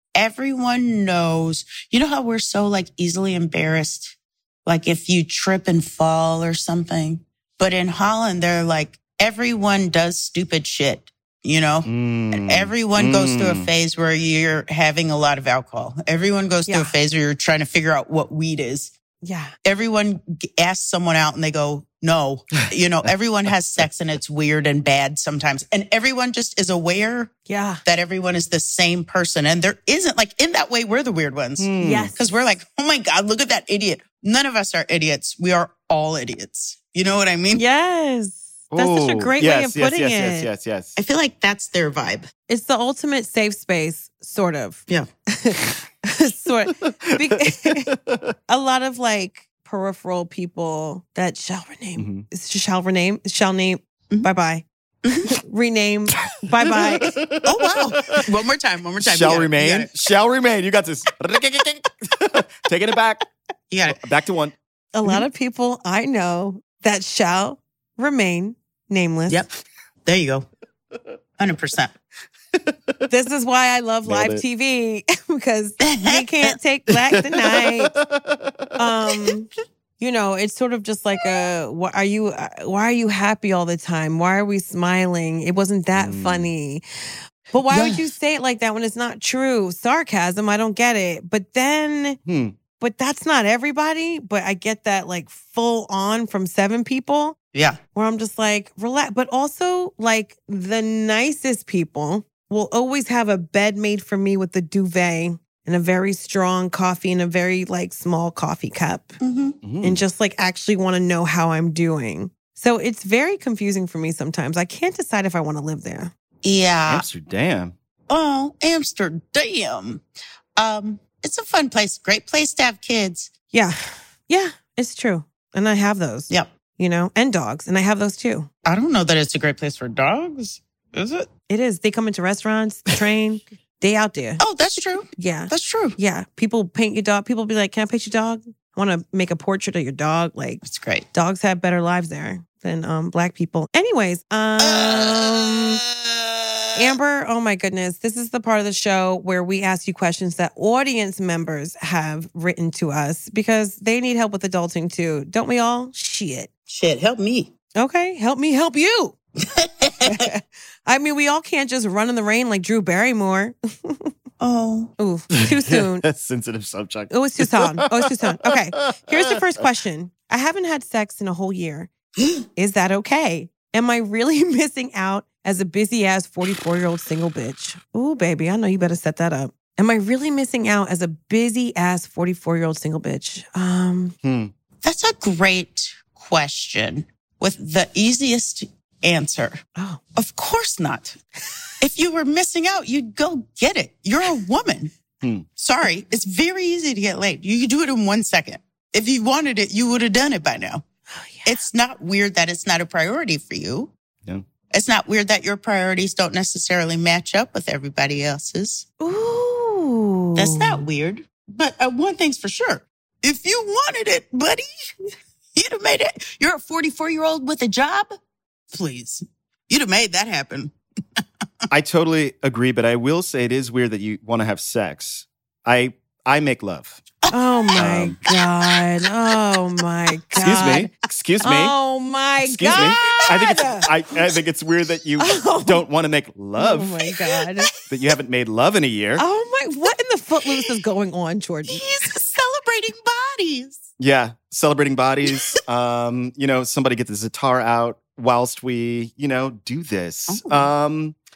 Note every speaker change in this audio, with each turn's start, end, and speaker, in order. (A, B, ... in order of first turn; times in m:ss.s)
0:00.2-0:18.9 A
0:11.9-0:13.7 B
0:16.7-0:17.0 C
0:19.2-0:19.5 C
0:19.6-0:27.3 A
0:27.5-0:27.8 C
0:27.8-0:37.6 A
0:31.6-0:32.1 B
0:31.8-0:32.2 C
0:37.5-0:40.5 C
0:38.7-0:41.0 B
0:41.0-0:42.3 A
0:42.5-0:47.9 C
0:47.1-0:48.4 B
0:48.5-0:54.6 C
0:52.0-0:52.2 B
0:55.0-0:55.4 A
0:55.3-0:57.2 C
0:56.6-0:58.3 B
0:57.4-0:59.9 A
0:59.0-1:03.2 B
1:03.7-1:04.0 A
1:03.9-1:04.6 B
1:04.9-1:09.4 C
1:10.1-1:10.5 A
1:11.4-1:11.9 A
1:13.1-1:17.9 C
1:14.0-1:14.4 B
1:15.8-1:16.6 A
1:16.9-1:18.9 B
1:18.8-1:26.8 C
1:25.9-1:26.5 B
1:27.5-1:32.2 C
1:27.7-1:28.0 A
1:32.3-1:32.6 B
1:32.8-1:37.4 C
1:37.5-1:37.8 A
1:37.9-1:49.2 C
1:49.2-1:49.6 A
1:49.6-1:50.0 B
1:49.8-1:56.1 C
1:56.4-1:57.1 A
1:56.9-1:57.7 B
1:58.1-2:00.0 A
2:00.6-2:03.3 A
2:03.5-2:08.5 C
2:08.6-2:11.3 A
2:11.5-2:14.4 C
2:14.4-2:16.0 A
2:15.2-2:20.6 C
2:20.6-2:21.1 A
2:21.1-2:25.8 C
2:24.6-2:26.7 A
2:26.8-2:36.5 C
2:36.7-2:37.5 A
2:37.8-2:39.2 C
2:39.4-2:40.3 A
2:40.0-2:44.1 C
2:44.4-2:44.9 A
2:45.0-2:46.1 C
2:45.4-2:49.4 B
2:47.1-2:51.9 C
2:52.6-3:04.2 C
3:04.2-3:04.5 B
3:04.8-3:09.6 A
3:10.2-3:11.2 A
3:11.8-3:14.9 A
3:15.6-3:20.8 A
3:21.2-3:21.6 C
3:21.4-3:23.9 A
3:24.7-3:28.9 A
3:29.0-3:30.8 C
3:30.4-3:34.6 A
3:35.6-3:38.1 A
3:38.7-3:40.7 A
3:41.7-3:47.0 B
3:47.2-3:48.8 A
3:47.3-3:50.9 C
3:47.8-3:48.2 B
3:50.3-3:50.8 A
3:50.4-3:51.8 B
3:51.4-3:53.9 C
3:52.4-3:57.0 B
3:52.7-3:53.4 A
3:55.2-3:55.8 C
3:56.6-3:57.7 C
3:57.9-3:59.2 B
3:59.2-4:02.1 C
4:01.7-4:03.9 A
4:04.0-4:11.2 B
4:10.3-4:10.7 A